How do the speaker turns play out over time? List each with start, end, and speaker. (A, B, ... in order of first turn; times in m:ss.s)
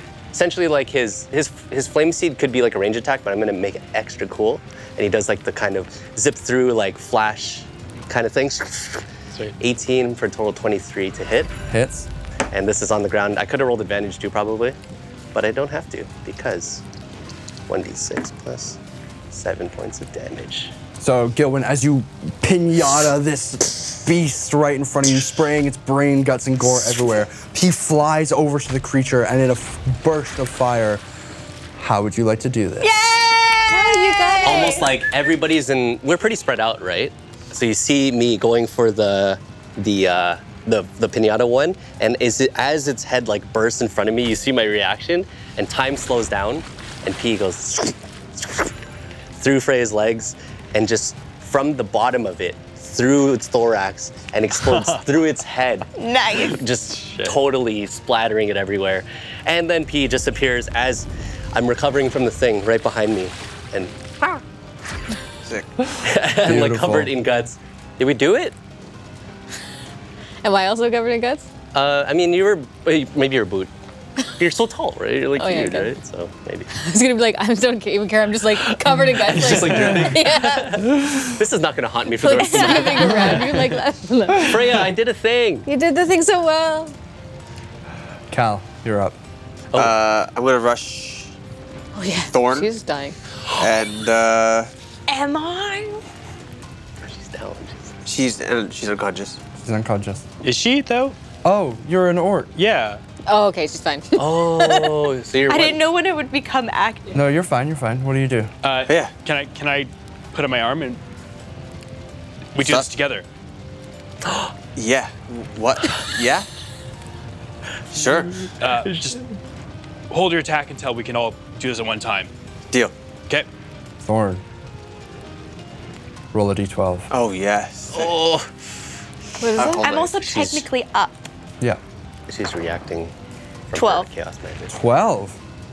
0:00.3-0:09.0 A
0:09.6-0:11.5 A
0:11.7-0:12.1 B
0:12.5-0:14.8 A
0:15.3-0:16.8 A
0:17.7-0:18.8 A
0:19.3-0:20.7 A
0:21.0-0:31.0 B
0:31.8-0:33.1 B
0:32.8-0:35.0 C
0:34.1-0:34.6 D
0:34.4-0:48.7 A
0:49.4-0:55.9 A
0:54.6-0:55.0 E
0:56.0-0:56.6 C
0:56.4-1:04.4 A
0:56.9-0:57.4 E
1:05.4-1:05.7 F
1:06.0-1:08.6 A
1:06.4-1:07.1 B
1:10.4-1:11.5 D
1:11.7-1:13.7 A
1:14.4-1:16.7 A
1:15.4-1:15.9 D
1:16.7-1:20.9 D
1:19.0-1:23.6 A
1:22.2-1:24.7 D
1:24.4-1:25.7 A
1:25.7-1:27.0 D
1:28.3-1:29.2 B
1:29.7-1:31.3 F
1:32.0-1:33.2 D
1:32.3-1:32.7 F
1:33.6-1:34.7 F
1:35.1-1:36.0 C
1:37.0-1:38.0 A
1:38.1-1:39.4 F
1:39.6-1:40.3 B
1:40.4-1:41.2 E
1:41.4-1:42.5 B
1:42.6-1:43.0 E
1:43.3-1:45.0 D
1:44.2-1:45.8 A
1:45.5-1:47.2 C
1:47.1-1:48.5 B
1:48.6-1:51.0 E
1:48.9-1:49.1 F
1:52.6-1:53.2 E
1:52.6-1:52.9 F
1:54.7-1:56.5 F
1:57.9-1:58.5 F
1:58.6-1:59.2 E
1:58.9-1:59.2 A
2:00.1-2:02.3 E
2:04.0-2:04.4 B
2:06.3-2:07.1 B
2:07.1-2:08.1 F
2:07.9-2:08.5 A
2:09.4-2:09.8 D
2:09.6-2:10.6 F
2:09.8-2:11.2 C
2:10.3-2:10.6 A
2:12.3-2:13.1 A
2:13.7-2:14.8 A
2:13.7-2:14.1 C
2:14.7-2:15.4 B